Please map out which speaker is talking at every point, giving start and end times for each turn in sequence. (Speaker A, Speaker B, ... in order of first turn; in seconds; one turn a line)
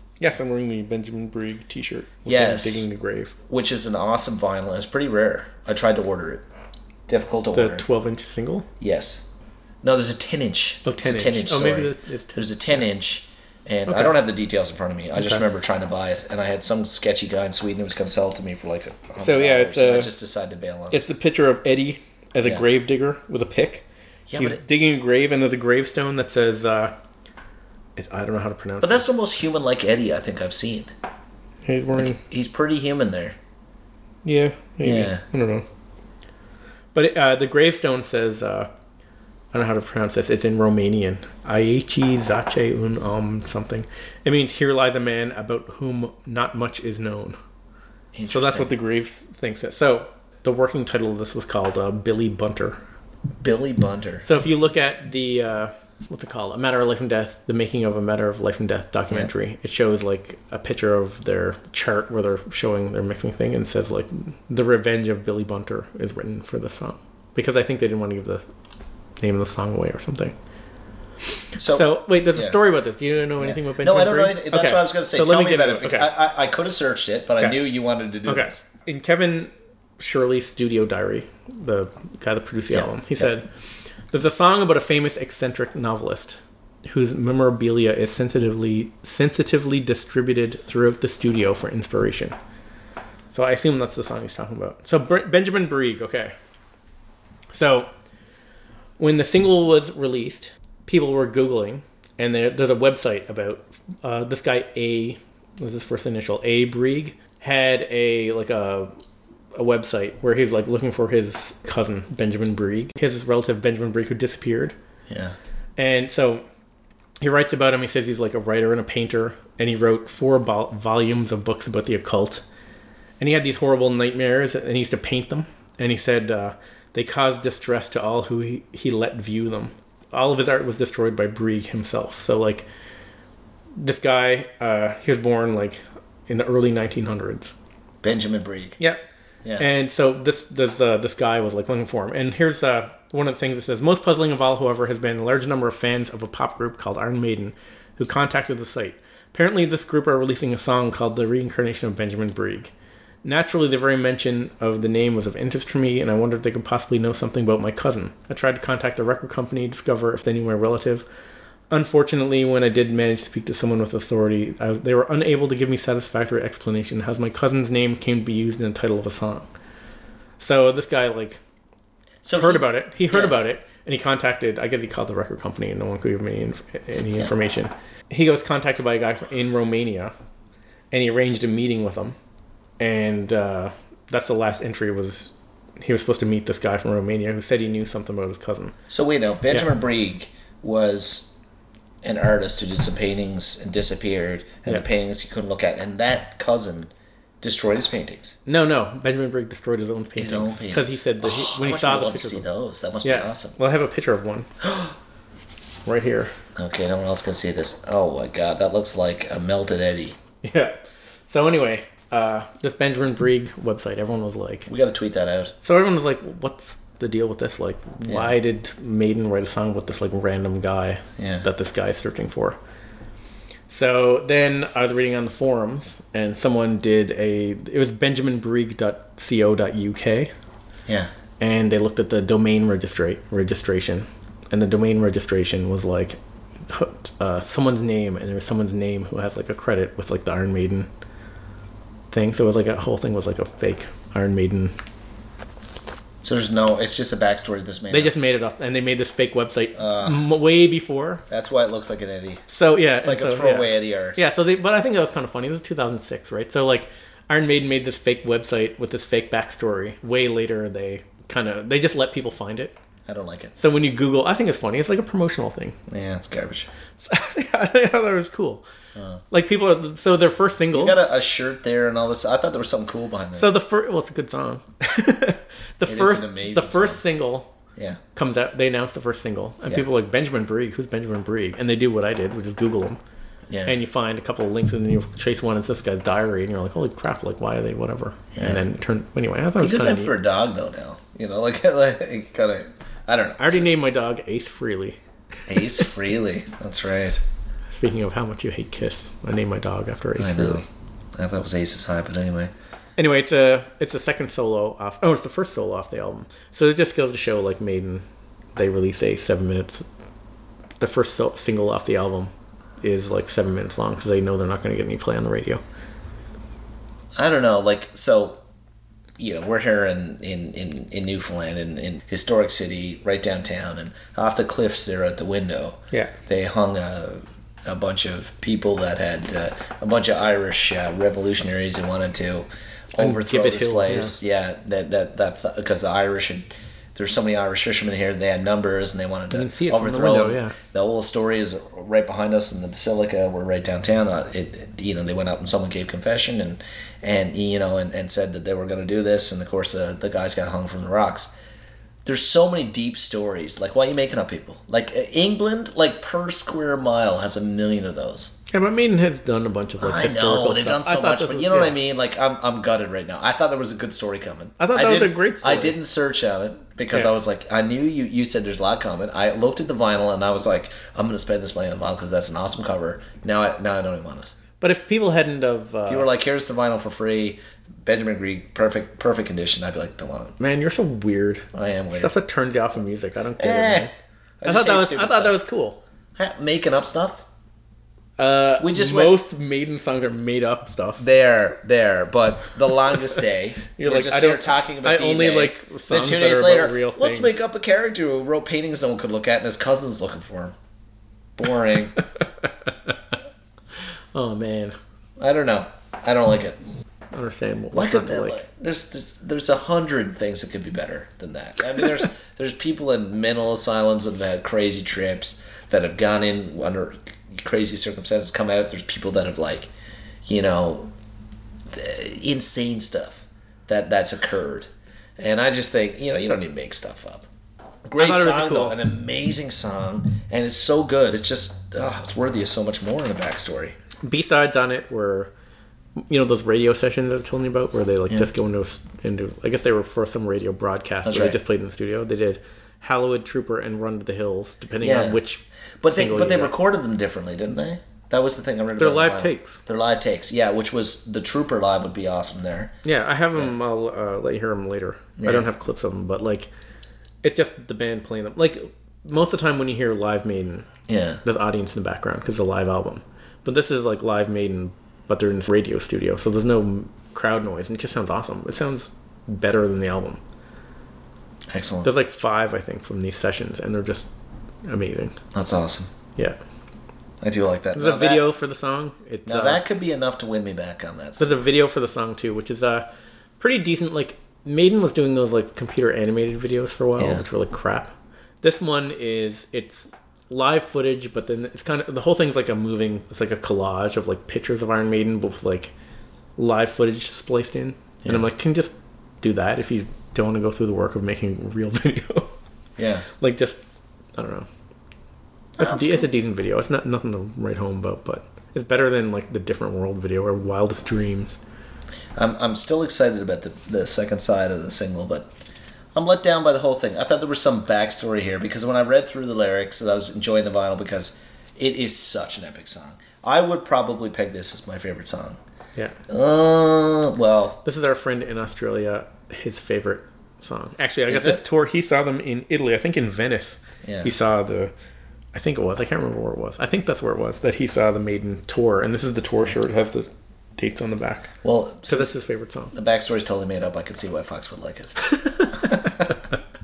Speaker A: 0.2-3.3
Speaker B: 2.2-2.9
Speaker B: 3.5-6.4
Speaker B: 7.1-7.8
Speaker A: 7.5-8.7
Speaker B: 8.8-9.2
Speaker B: 9.8-21.0
Speaker A: 10.8-12.8
Speaker A: 13.9-14.2
Speaker A: 15.1-15.4
Speaker A: 19.2-20.1
Speaker A: 20.9-23.8
Speaker B: 24.3-24.6
Speaker A: 24.4-26.9
Speaker A: 27.9-29.1
Speaker B: 28.8-30.9
Speaker A: 31.6-32.2
Speaker B: 31.9-33.4
Speaker A: 34.2-35.6
Speaker B: 34.8-35.2
Speaker A: 36.9-38.7
Speaker A: 39.5-47.4
Speaker B: 48.1-48.7
Speaker A: 48.3-52.8
Speaker B: 53.4-54.3
Speaker A: 54.2-68.4
Speaker A: 69.2-70.3
Speaker B: 71.6-72.6
Speaker A: 71.7-76.1
Speaker B: 73.4-78.7
Speaker A: 78.2-83.5
Speaker B: 82.7-83.3
Speaker A: 84.1-92.3
Speaker A: 93.3-96.3
Speaker A: 97.5-97.9
Speaker A: 99.0-108.9
Speaker A: 109.5-114.7
Speaker B: 115.1-115.3
Speaker A: 115.8-116.4
Speaker A: 117.2-122.4
Speaker A: 123.2-132.7
Speaker A: 133.8-137.5
Speaker B: 138.0-138.8
Speaker A: 139.6-152.7
Speaker A: 153.2-161.1
Speaker A: 161.7-169.5
Speaker A: 170.4-171.4
Speaker B: 172.2-173.4
Speaker A: 172.3-180.1
Speaker A: 180.9-182.2
Speaker A: 182.8-188.8
Speaker B: 188.9-191.4
Speaker B: 192.0-198.4
Speaker A: 198.4-202.4
Speaker B: 200.2-203.6
Speaker A: 203.0-204.5
Speaker B: 204.6-204.9
Speaker A: 205.8-206.3
Speaker B: 206.6-210.2
Speaker A: 210.4-214.7
Speaker B: 214.7-215.5
Speaker A: 215.6-222.6
Speaker B: 218.0-218.3
Speaker B: 221.2-221.4
Speaker A: 223.7-230.3
Speaker A: 231.4-240.9
Speaker A: 242.1-244.7
Speaker B: 246.2-248.1
Speaker A: 247.9-251.2
Speaker B: 249.7-250.3
Speaker B: 251.3-252.4
Speaker A: 252.5-262.7
Speaker B: 253.0-254.2
Speaker B: 263.1-263.5
Speaker A: 263.6-265.8
Speaker B: 265.9-266.7
Speaker A: 267.0-268.6
Speaker B: 268.9-269.2
Speaker A: 269.3-271.0
Speaker B: 270.7-273.6
Speaker A: 273.4-277.5
Speaker B: 275.9-277.0
Speaker A: 278.1-283.0
Speaker B: 283.5-283.8
Speaker A: 283.6-290.1
Speaker B: 288.4-288.6
Speaker B: 289.6-293.7
Speaker A: 293.4-295.0
Speaker B: 295.5-297.2
Speaker A: 297.7-300.6
Speaker B: 300.1-302.5
Speaker A: 303.0-308.0
Speaker A: 308.6-309.8
Speaker A: 310.8-315.6
Speaker B: 317.1-318.4
Speaker B: 319.2-351.3
Speaker A: 333.0-334.2
Speaker A: 339.3-340.5
Speaker B: 352.0-358.4
Speaker A: 358.5-361.7
Speaker B: 359.8-374.3
Speaker A: 364.6-365.8
Speaker A: 374.6-376.1
Speaker B: 375.9-380.3
Speaker A: 380.4-383.9
Speaker B: 381.5-382.1
Speaker B: 383.4-385.4
Speaker A: 384.4-385.8
Speaker B: 386.2-387.2
Speaker A: 388.2-391.0
Speaker B: 388.6-389.2
Speaker B: 391.0-400.6
Speaker A: 393.7-397.4
Speaker B: 401.4-402.0
Speaker A: 402.4-402.9
Speaker A: 404.1-404.8
Speaker B: 405.2-406.6
Speaker A: 407.1-408.4
Speaker B: 407.7-419.7
Speaker B: 420.2-420.9
Speaker B: 421.7-427.3
Speaker B: 427.9-433.8
Speaker A: 428.0-428.8
Speaker A: 434.0-435.3
Speaker A: 436.0-446.5
Speaker B: 441.0-441.4
Speaker B: 444.8-445.2
Speaker B: 445.8-452.7
Speaker A: 448.8-449.6
Speaker A: 452.8-456.5
Speaker B: 455.2-455.5
Speaker A: 457.2-460.7
Speaker B: 460.9-461.2
Speaker A: 461.2-470.2
Speaker B: 471.5-471.9
Speaker A: 471.8-474.1
Speaker A: 474.6-475.2
Speaker B: 475.3-475.9
Speaker B: 477.2-478.2
Speaker A: 477.7-479.6
Speaker B: 479.2-481.4
Speaker A: 481.2-482.9
Speaker A: 483.4-495.7
Speaker B: 487.0-487.2
Speaker A: 496.4-502.3
Speaker B: 502.8-503.1
Speaker A: 503.2-503.6
Speaker A: 504.1-504.5
Speaker B: 505.6-506.1
Speaker A: 505.6-511.4
Speaker B: 512.1-515.3
Speaker B: 515.9-525.4
Speaker B: 526.1-527.6
Speaker A: 527.6-534.7
Speaker B: 531.1-531.4
Speaker B: 533.8-534.1
Speaker A: 535.3-541.3
Speaker B: 541.4-542.1
Speaker A: 541.9-542.7
Speaker B: 542.7-546.1
Speaker A: 545.0-546.3